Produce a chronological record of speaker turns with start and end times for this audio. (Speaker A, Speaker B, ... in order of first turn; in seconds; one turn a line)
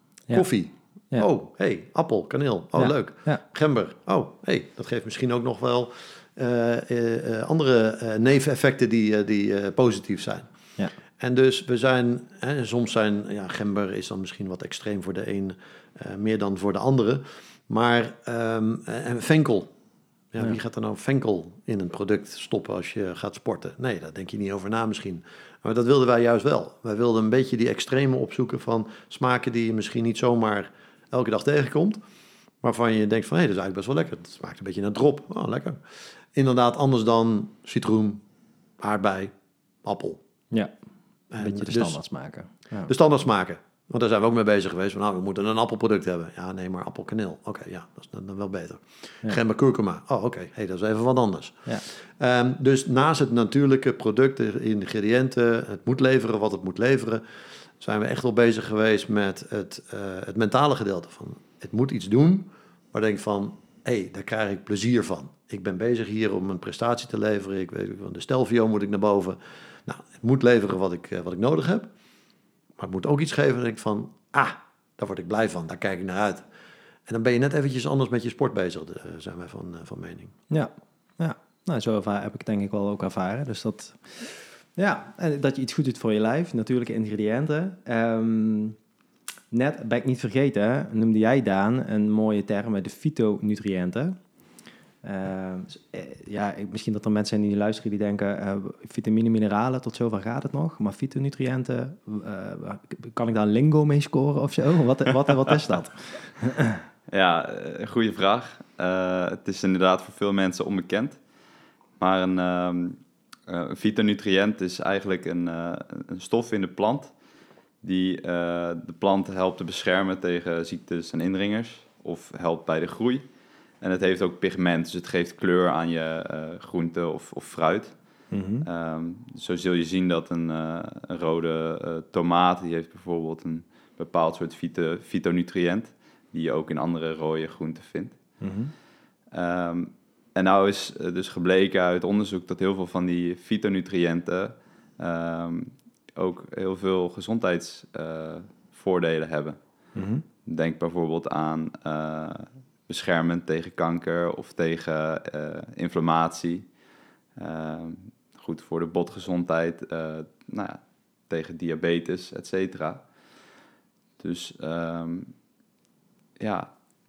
Speaker A: 0.3-10.5
Speaker B: 2.8-3.4
Speaker A: 11.2-19.7
Speaker A: 20.3-32.0
Speaker A: 32.6-35.8
Speaker A: 36.4-38.2
Speaker A: 38.8-39.3
Speaker A: 39.8-40.2
Speaker A: 41.3-42.0
Speaker B: 41.4-42.9
Speaker A: 42.9-57.2
Speaker A: 57.8-71.9
Speaker A: 72.8-76.4
Speaker A: 77.1-80.3
Speaker B: 80.5-88.8
Speaker B: 89.5-94.2
Speaker B: 95.0-106.8
Speaker C: 107.1-111.2
Speaker C: 112.0-117.1
Speaker C: 117.8-123.3
Speaker C: 123.8-128.0
Speaker B: 128.3-128.7
Speaker C: 128.6-138.2
Speaker B: 138.4-138.7
Speaker C: 139.3-149.6
Speaker B: 149.9-150.2
Speaker C: 150.4-156.7
Speaker C: 157.4-163.0
Speaker C: 164.2-165.3
Speaker C: 166.4-166.7